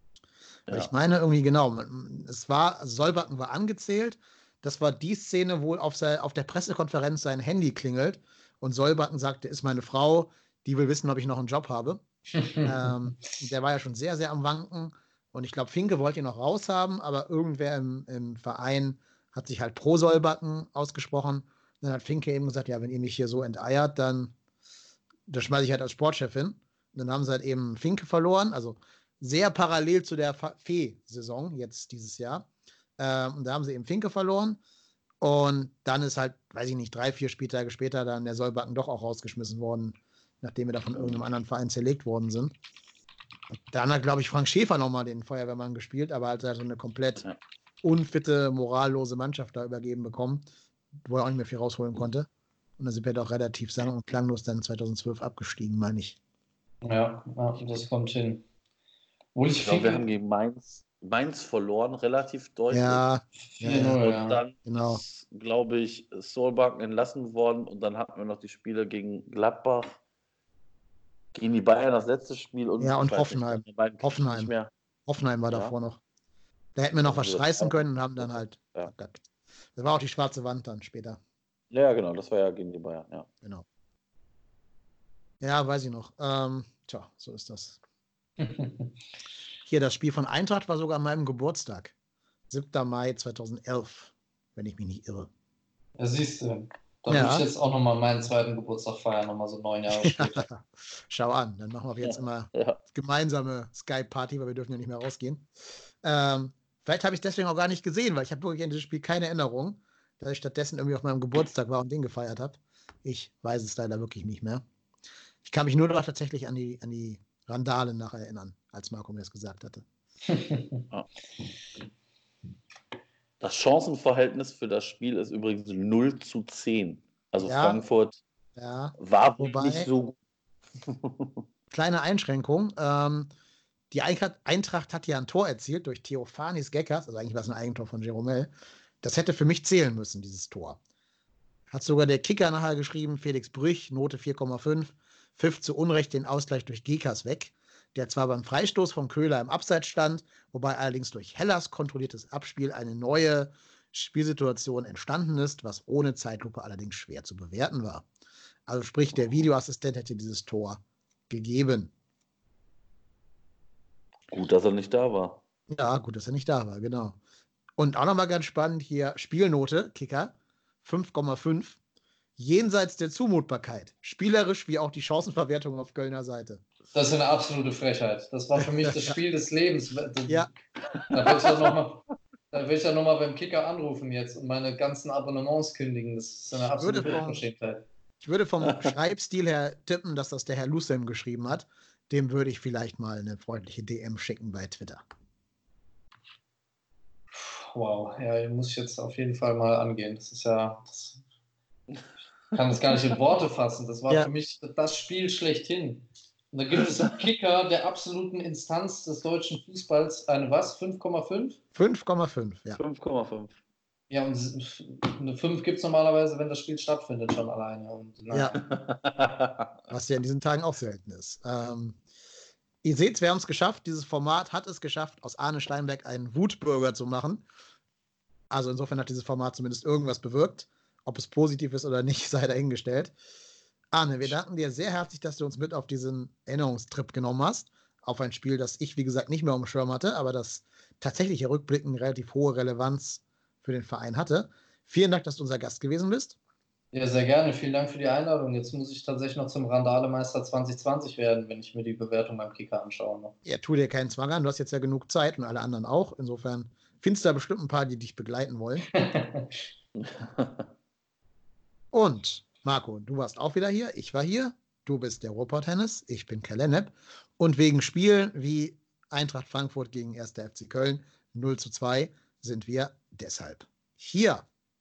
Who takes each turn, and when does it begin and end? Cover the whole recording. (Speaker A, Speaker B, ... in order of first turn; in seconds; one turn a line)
Speaker A: 0.7-12.0
Speaker A: 12.6-24.3
Speaker A: 25.3-32.5
Speaker A: 33.0-34.6
Speaker A: 35.2-42.5
Speaker A: 43.7-47.2
Speaker A: 47.8-50.4
Speaker A: 51.0-56.2
Speaker B: 56.8-58.4
Speaker B: 59.3-60.0
Speaker C: 59.6-63.0
Speaker A: 62.7-64.0
Speaker B: 63.5-64.4
Speaker C: 64.0-70.0
Speaker A: 64.6-65.0
Speaker C: 71.3-74.7
Speaker A: 72.8-74.5
Speaker A: 75.1-76.0
Speaker A: 76.8-81.2
Speaker C: 77.0-78.9
Speaker C: 81.7-83.3
Speaker A: 85.4-87.8
Speaker B: 88.4-88.9
Speaker A: 89.7-91.9
Speaker A: 92.5-95.3
Speaker B: 96.0-100.5
Speaker A: 97.1-97.5
Speaker A: 100.0-105.5
Speaker C: 102.0-102.8
Speaker A: 106.0-114.6
Speaker A: 115.4-119.8
Speaker B: 120.3-120.8
Speaker C: 123.4-128.2
Speaker A: 127.4-127.8
Speaker A: 128.6-129.9
Speaker C: 129.0-130.1
Speaker C: 130.9-131.4
Speaker A: 131.7-133.3
Speaker A: 133.9-140.8
Speaker A: 141.7-158.1
Speaker A: 158.7-161.9
Speaker C: 164.3-165.4
Speaker A: 165.7-167.2
Speaker A: 167.8-171.8
Speaker A: 172.4-176.6
Speaker B: 176.9-180.5
Speaker A: 178.6-179.2
Speaker B: 181.1-187.8
Speaker A: 186.8-187.4
Speaker A: 188.2-195.0
Speaker B: 197.3-201.2
Speaker B: 202.5-211.6
Speaker A: 211.7-212.8
Speaker C: 212.8-213.5
Speaker B: 214.1-218.6
Speaker A: 218.3-218.6
Speaker C: 218.6-219.7
Speaker A: 219.9-222.0
Speaker A: 222.8-227.4
Speaker A: 228.5-233.1
Speaker A: 233.9-246.4
Speaker B: 246.9-253.3
Speaker A: 253.4-258.9
Speaker B: 259.0-259.5
Speaker C: 260.0-260.6
Speaker A: 261.9-274.4